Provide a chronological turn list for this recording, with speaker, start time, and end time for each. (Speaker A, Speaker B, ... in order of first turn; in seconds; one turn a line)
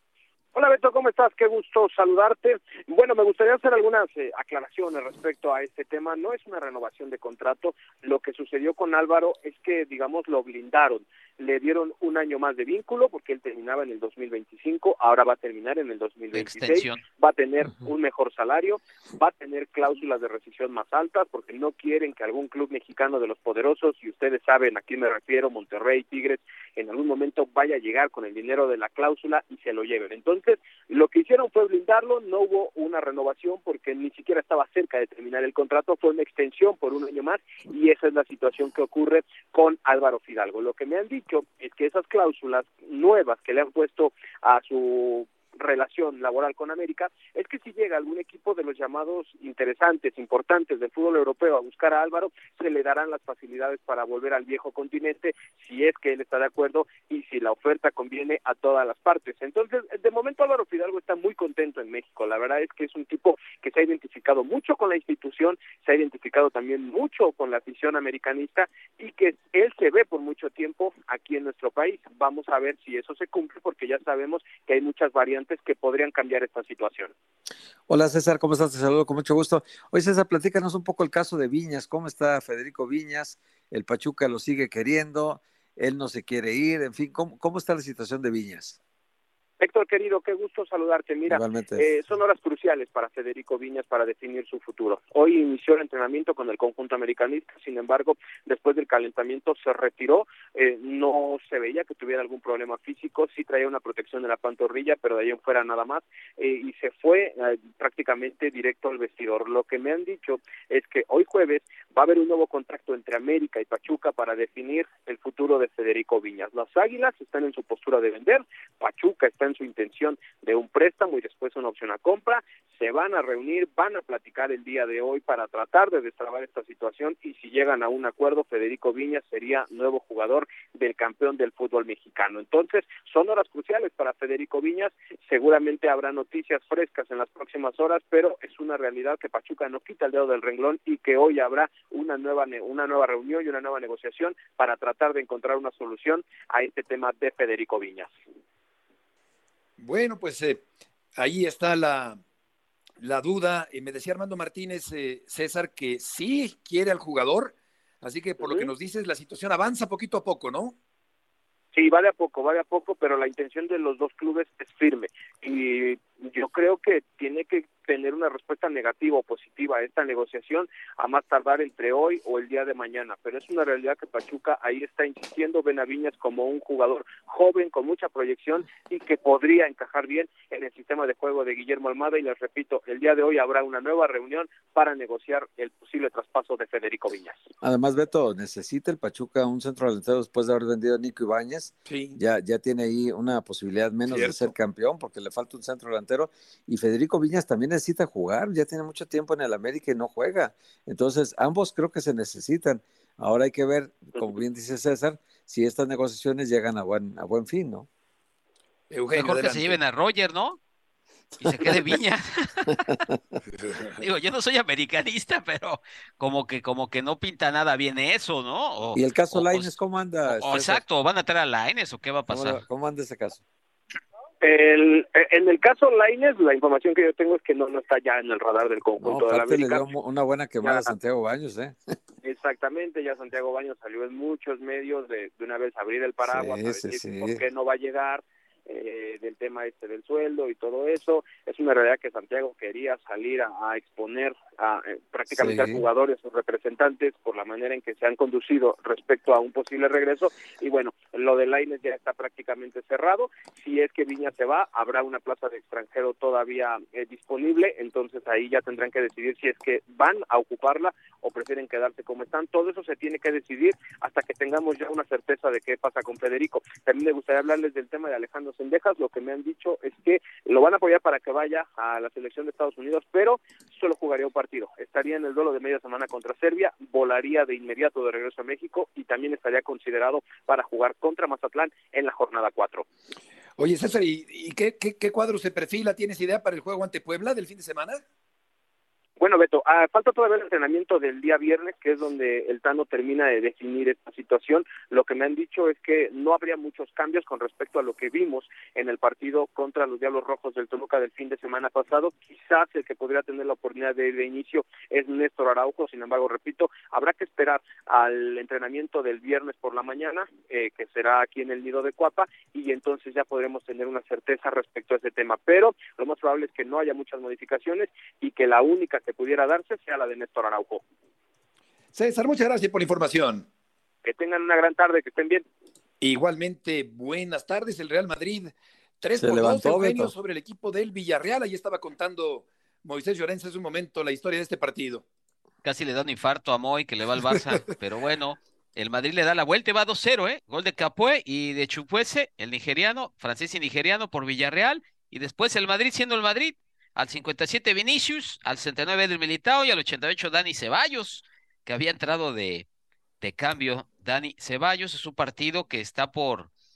Speaker A: 0.5-77.1
Speaker B: 16.3-17.0
Speaker C: 77.9-88.8
Speaker A: 89.6-148.1
Speaker C: 91.3-91.9
Speaker D: 149.8-150.6
Speaker D: 151.2-152.2
Speaker D: 153.0-160.7
Speaker A: 158.4-158.7
Speaker A: 161.7-187.5
Speaker C: 187.6-207.9
Speaker D: 191.8-192.2
Speaker D: 194.1-194.5
Speaker D: 208.9-209.8
Speaker B: 209.1-210.6
Speaker B: 211.4-212.8
Speaker D: 213.5-214.0
Speaker B: 214.0-219.7
Speaker C: 218.9-220.8
Speaker B: 220.2-222.6
Speaker C: 222.3-223.4
Speaker A: 224.4-229.9
Speaker C: 229.0-231.9
Speaker A: 230.6-230.9
Speaker A: 232.2-282.8
Speaker C: 236.2-237.4
Speaker C: 245.3-245.8
Speaker D: 283.6-288.0
Speaker A: 289.2-320.8
Speaker D: 321.9-323.4
Speaker A: 324.0-325.4
Speaker D: 326.0-335.0
Speaker C: 329.2-330.1
Speaker B: 335.6-352.6
Speaker B: 353.2-356.5